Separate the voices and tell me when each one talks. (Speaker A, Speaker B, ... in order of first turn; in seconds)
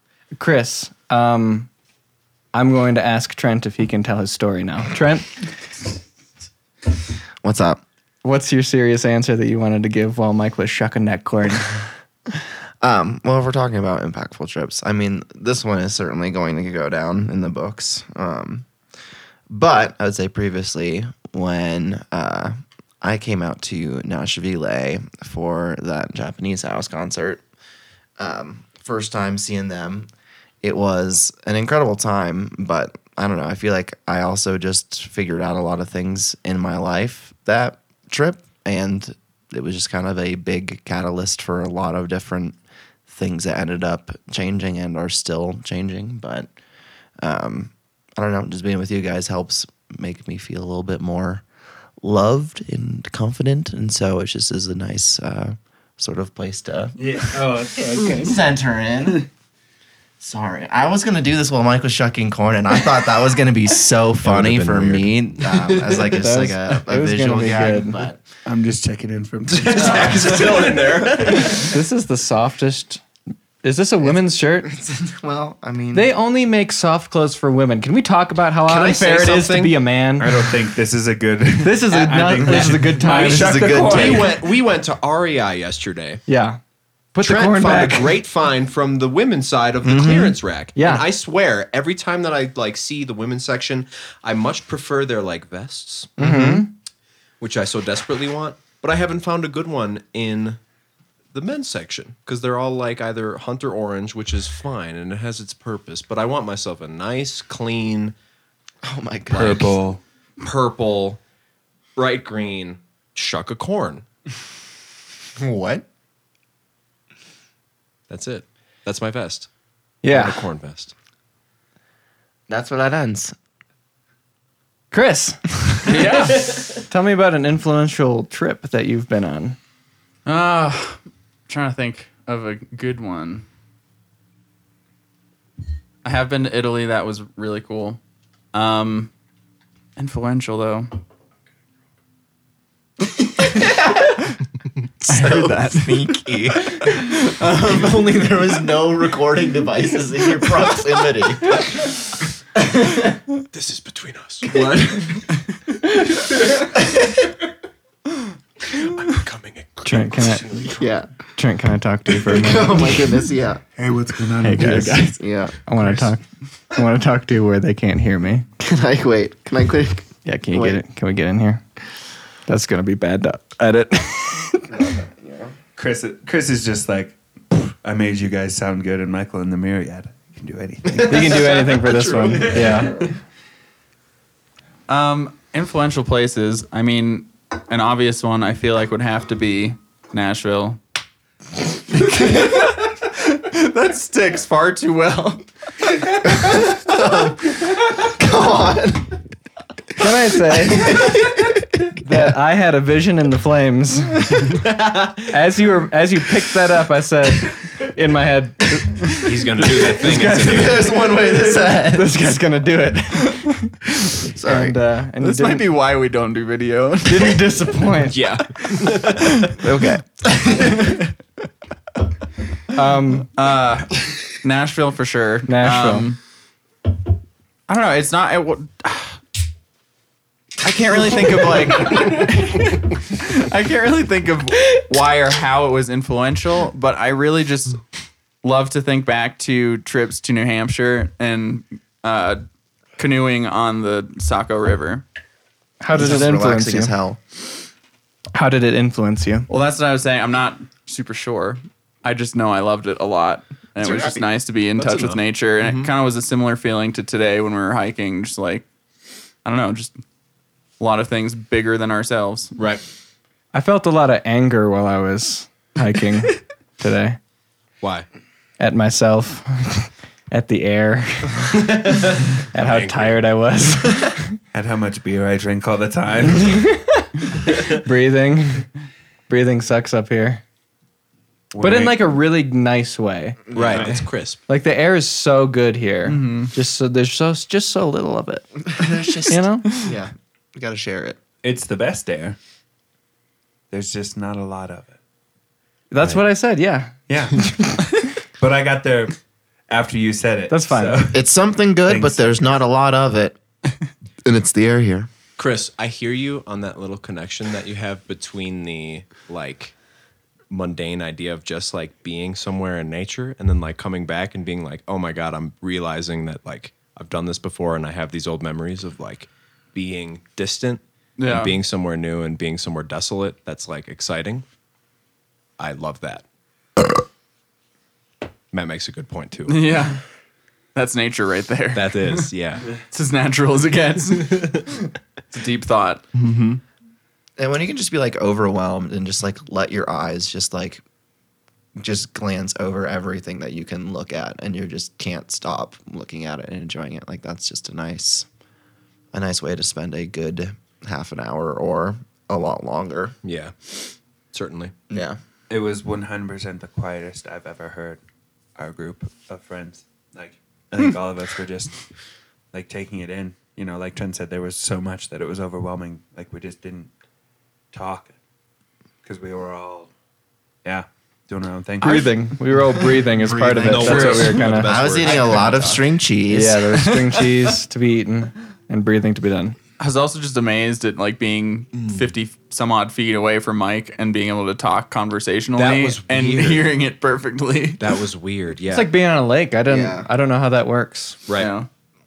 Speaker A: 0.3-1.7, 2.5-5.5, 8.2-11.9, 66.2-68.0, 71.6-73.0, 73.6-74.7, 75.9-80.5, 81.6-84.2, 86.3-86.6, 87.1-88.2, 90.8-91.1, 96.2-96.7, 120.0-120.5, 124.9-129.6, 159.8-160.7, 161.3-163.2, 164.4-168.5, 170.2-171.6, 172.5-174.8, 181.0-183.1, 200.0-201.1, 202.0-204.5, 205.3-213.8, 214.4-215.7, 217.1-218.2, 222.7-223.3, 225.5-226.1, 245.8-247.0, 248.3-249.5, 263.5-267.2, 268.6-274.4, 276.3-278.7, 279.3-280.4, 281.6-283.6, 284.5-288.5, 289.3-289.7, 295.9-297.9, 300.5-301.1, 371.8-374.7, 376.3-379.6, 388.7-391.2
Speaker B: 7.4-7.8, 12.8-18.7, 19.5-27.4, 28.2-30.1, 30.6-42.6, 43.1-46.5, 47.2-51.4, 52.0-57.0, 57.8-59.3, 60.2-68.2, 69.8-70.4, 74.0-76.1, 82.3-84.4, 89.8-90.4, 96.2-96.7, 108.8-109.8, 115.4-115.8, 122.5-123.3, 145.0-151.8, 160.8-161.1, 162.2-163.6, 165.1-165.6, 168.6-170.8, 174.7-175.5, 196.3-199.2, 200.7-201.5, 210.2-212.2, 214.3-214.8, 219.6-220.8, 245.9-247.2, 283.5-284.0, 288.7-291.2, 301.1-303.4, 304.2-305.1, 337.4-340.8, 341.8-348.3, 349.1-353.1, 354.9-355.2, 373.1-376.6, 389.7-390.1
Speaker C: 57.0-58.4, 68.5-71.2, 80.2-84.4, 109.3-110.0, 154.6-155.2, 163.8-165.1, 165.8-166.1, 175.8-181.6, 274.5-276.7, 281.5-282.1, 291.4-292.4, 293.7-295.0, 297.1-297.9, 298.4-299.2, 299.7-301.3, 301.9-302.2, 355.5-358.0, 358.6-361.9, 362.5-366.9, 367.7-368.1, 369.0-369.9, 370.6-372.1
Speaker D: 64.2-66.2, 69.5-71.8, 78.7-79.8, 83.8-86.2, 87.2-96.1, 97.4-100.6, 101.3-108.2, 110.4-111.2, 112.0-114.0, 118.1-119.5, 120.1-120.9, 153.5-154.7, 158.7-160.8, 181.1-183.0, 209.1-211.0, 218.1-219.6, 253.8-254.2, 254.8-255.9, 262.6-262.8, 267.8-268.1, 271.9-273.2, 283.5-284.4, 305.4-309.8, 310.5-324.4, 325.6-326.2, 328.5-329.7, 331.7-332.7, 336.1-336.6, 353.2-354.7, 373.6-375.8, 381.7-382.0, 385.6-386.7, 387.8-388.9
Speaker E: 125.9-126.5, 130.3-133.4, 136.0-138.0, 138.5-139.1, 140.0-140.9, 145.1-148.3, 184.9-190.8, 191.9-195.4, 215.2-217.4, 223.3-226.2, 227.7-229.2, 230.6-237.8, 238.4-242.4, 243.0-245.0, 249.5-258.7, 259.4-260.0, 260.8-262.6, 286.1-286.5, 321.2-321.6, 329.5-330.0, 330.8-332.3, 332.8-336.1, 379.8-388.0, 391.4-391.7